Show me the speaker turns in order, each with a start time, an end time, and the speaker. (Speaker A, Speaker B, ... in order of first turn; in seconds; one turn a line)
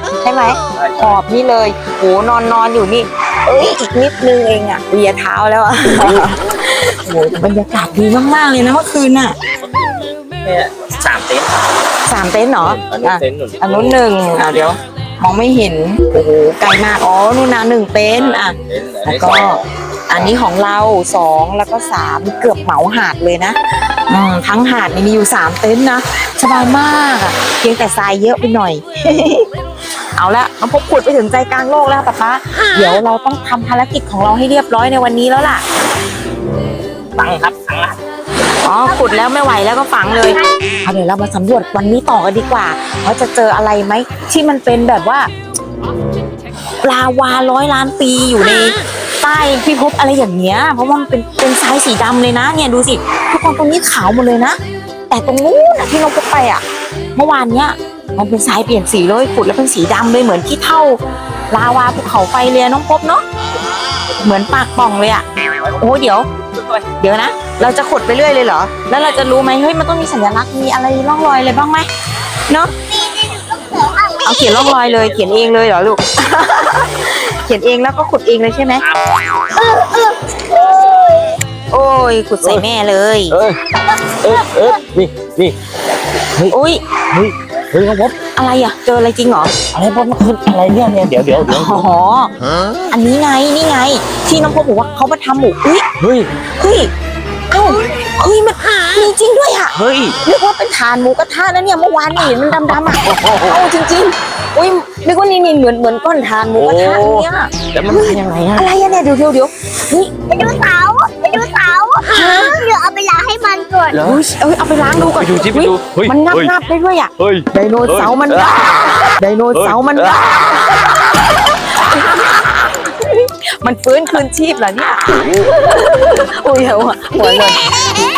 Speaker A: 0.2-9.3
Speaker B: 0.8-1.1
Speaker B: 10.4-11.6
Speaker A: 12.1-29.5
Speaker B: 12.6-14.0
Speaker B: 18.1-20.3
Speaker A: 30.1-35.6
Speaker B: 37.2-38.0
Speaker A: 38.6-45.3
Speaker C: 38.9-39.2
Speaker C: 40.0-40.6
Speaker A: 46.8-54.6
Speaker A: 55.1-56.6
Speaker A: 57.1-63.2
Speaker A: 64.2-66.3
Speaker A: 67.0-71.9
Speaker A: 72.5-72.7
Speaker C: 72.9-74.5
Speaker A: 74.2-78.8
Speaker B: 74.7-75.5
Speaker C: 79.5-81.4
Speaker A: 81.7-83.4
Speaker B: 83.3-83.6
Speaker B: 84.1-85.6
Speaker A: 86.5-86.8
Speaker B: 87.1-88.1
Speaker A: 88.2-89.5
Speaker B: 89.7-91.9
Speaker A: 91.4-92.3
Speaker A: 92.9-95.9
Speaker B: 96.0-96.3
Speaker A: 96.6-96.9
Speaker A: 97.5-110.1
Speaker B: 99.7-100.2
Speaker B: 102.9-103.6
Speaker B: 106.5-108.7
Speaker C: 110.3-114.0
Speaker A: 112.1-112.5
Speaker B: 113.9-114.2
Speaker A: 114.0-127.8
Speaker B: 115.0-116.5
Speaker B: 117.2-118.6
Speaker B: 119.5-120.2